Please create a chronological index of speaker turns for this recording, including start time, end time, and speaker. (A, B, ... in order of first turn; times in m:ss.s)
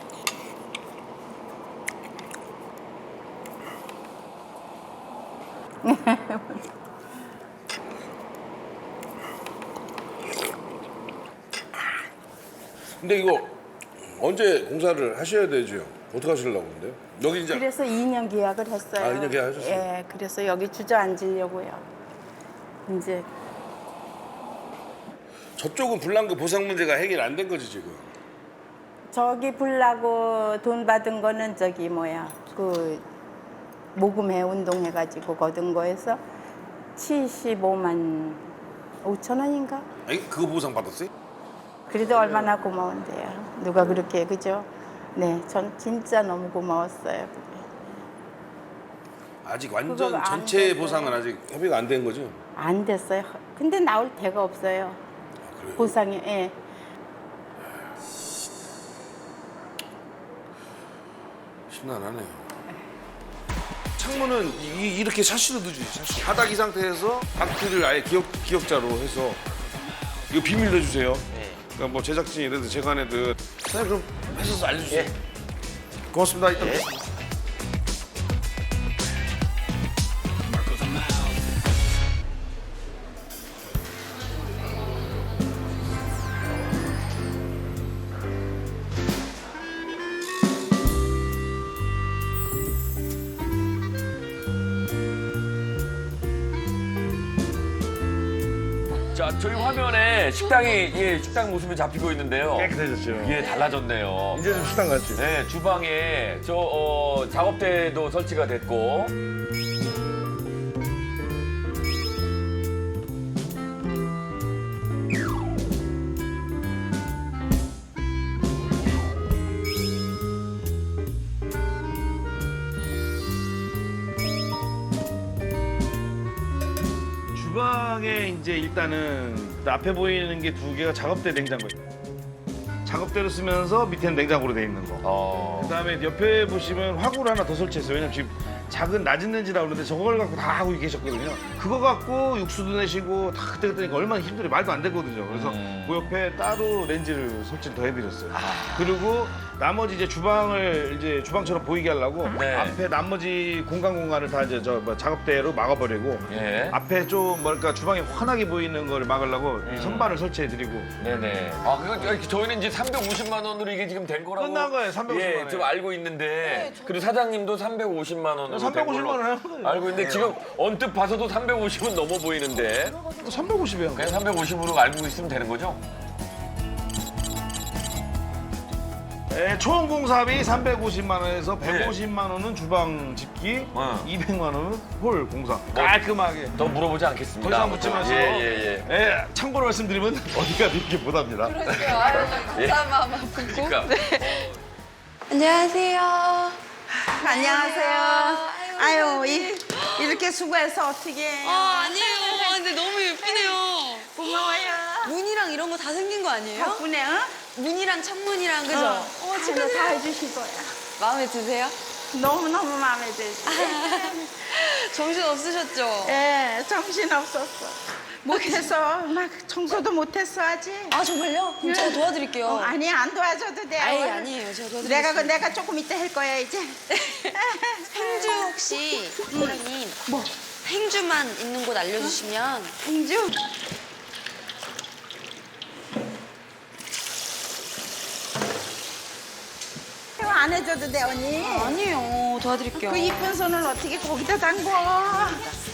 0:05.8-0:06.6 A
0:13.0-0:17.7 B
0:17.5-0:21.8 A
0:19.0-0:19.9 B
0:22.9-0:23.3 A
0:25.6-0:28.0 B
0:29.1-0:33.0 A
0:33.9-0:36.2 A
0:37.0-0:38.4 A
0:39.0-0:39.8 A
0:40.0-0:41.1 B
0:41.9-0:47.7 A
0:42.1-0:42.5 B
0:49.4-0:52.4 B
0:49.8-0:51.2 A
0:52.6-0:55.0 A
0:55.4-0:55.9 B
0:55.8-0:56.6 A
1:01.7-1:02.5 B
1:04.0-1:09.4 B
1:10.3-1:15.1 B
1:16.1-1:16.9 B
1:39.1-1:44.4 C
1:42.5-1:43.4 B
1:44.3-1:45.2 B
1:45.1-1:49.1 C
2:07.3-2:11.8 B
2:12.8-2:15.0 B
2:15.0-2:15.8 C
2:15.6-2:40.9 B
2:25.3-2:26.1 C
2:28.3-2:29.1 C
2:32.2-2:32.8 C
2:36.3-2:36.8 C
2:39.6-2:40.1 C
2:41.0-2:53.0 C
2:44.4-2:45.8 B
2:46.4-2:47.1 D
2:48.5-2:50.4 B
2:53.1-2:54.2 B
2:53.9-2:55.8 C
2:59.3-3:06.6 B
3:01.6-3:02.0 C
3:03.7-3:04.1 C
3:05.7-3:06.0 C
3:06.5-3:08.9 C
3:07.4-3:12.3 B
3:11.4-3:14.5 D
3:12.2-3:14.5 C
3:15.3-3:20.2 D
3:17.1-3:23.6 A
3:21.4-3:26.8 D
3:24.1-3:25.1 A
3:26.5-3:27.4 A
3:27.5-3:30.1 D
3:28.7-3:30.7 A
3:31.0-3:31.8 D
3:32.1-3:34.3 A
3:33.4-3:36.2 D
3:36.0-3:41.0 A
3:38.2-3:38.7 D
3:40.9-3:42.8 D
3:41.6-3:48.6 A
3:43.8-3:45.5 D
3:47.0-3:50.0 D
3:49.3-3:50.3 A
3:50.6-3:52.7 D
3:52.8-3:53.4 A
4:00.2-4:01.8 A
4:01.4-4:03.3 D
4:02.7-4:05.6 A